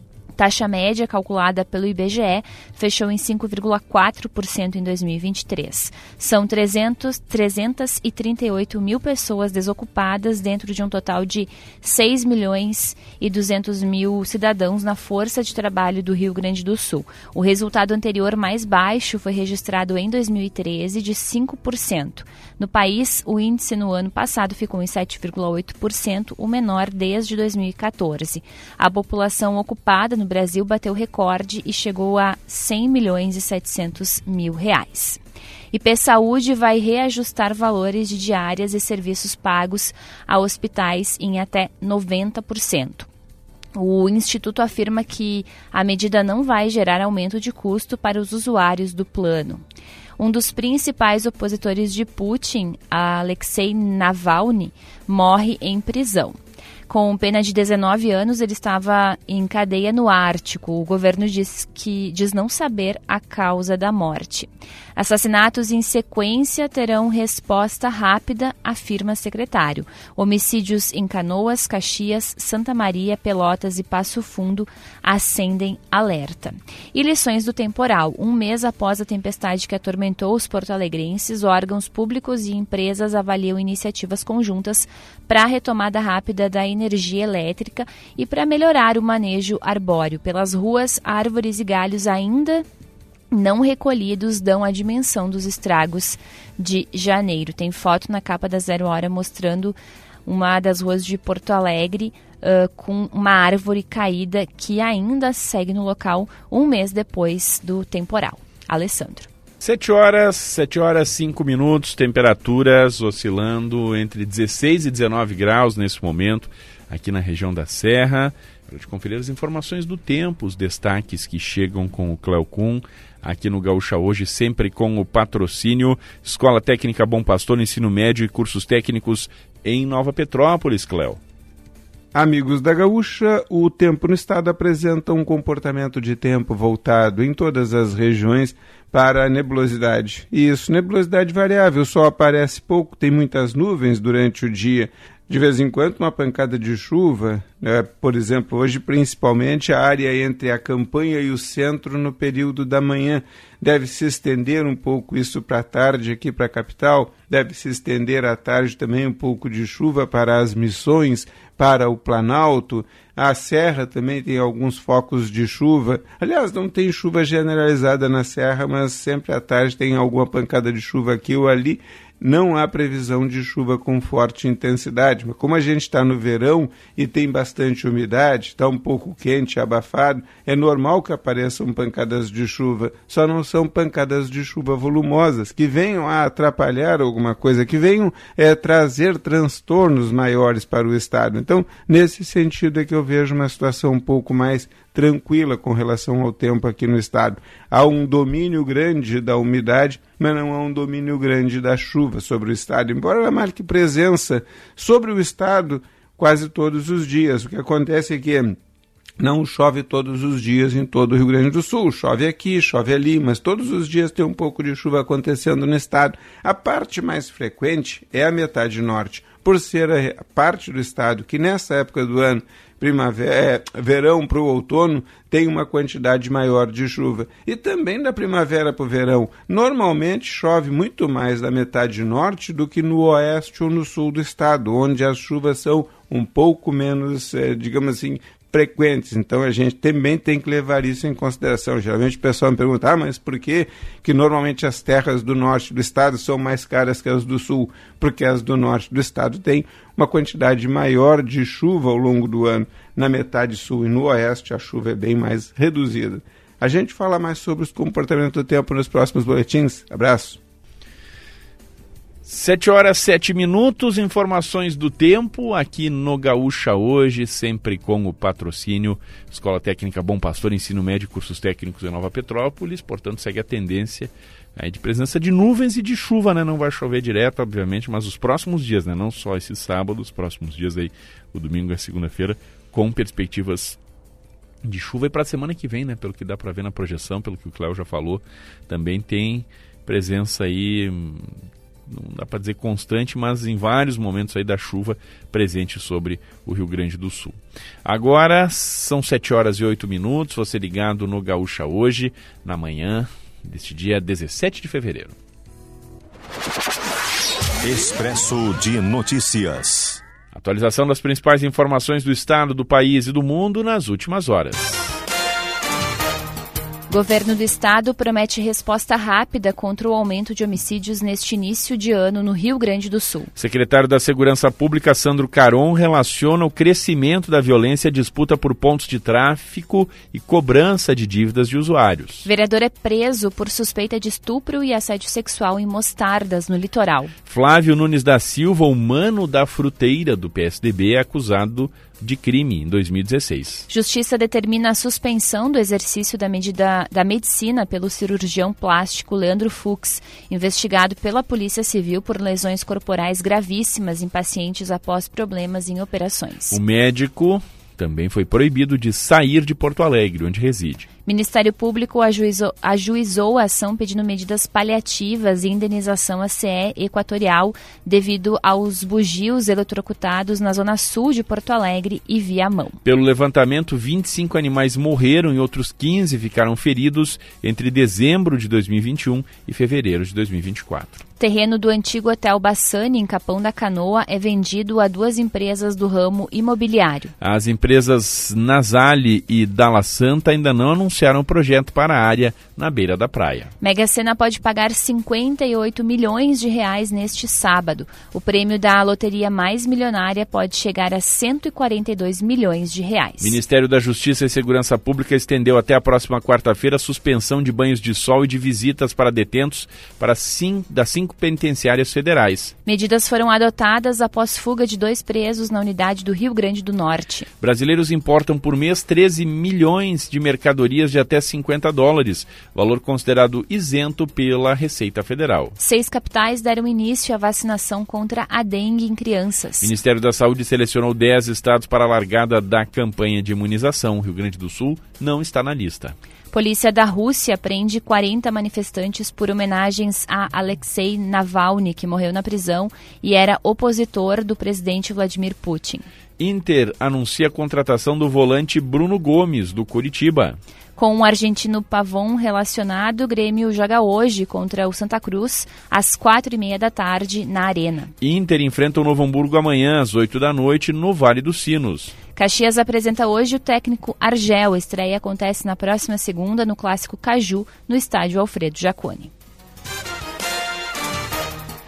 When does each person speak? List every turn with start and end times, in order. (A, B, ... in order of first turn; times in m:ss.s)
0:00.4-0:35.2 A
0:35.7-0:43.1 A
0:43.8-0:49.6 A
0:50.2-1:32.6 A
1:33.3-1:49.3 A
1:49.6-2:11.2 B
2:12.1-3:28.6 C
3:29.2-4:20.4 C
4:22.2-4:43.8 B
4:44.6-4:51.3 B
4:51.9-5:05.2 B
5:07.6-5:10.0 D
5:10.3-5:15.0 B
5:16.9-5:23.3 A
5:23.4-5:32.3 B
5:32.2-5:37.1 A
5:37.3-5:43.7 B
5:43.7-5:56.6 A
5:56.5-6:00.9 B
6:01.1-6:12.8 A
6:12.8-6:21.0 B
6:21.2-6:27.1 A
6:27.2-6:33.5 B
6:33.6-6:43.4 A
6:43.2-6:52.5 B
6:52.6-6:57.3 A
6:57.4-7:05.6 B
7:05.6-7:09.7 A
7:09.6-7:16.0 B
7:16.3-7:25.9 A
7:26.2-7:30.4 B
7:30.8-7:37.9 A
7:38.0-7:41.9 B
7:42.2-7:49.1 A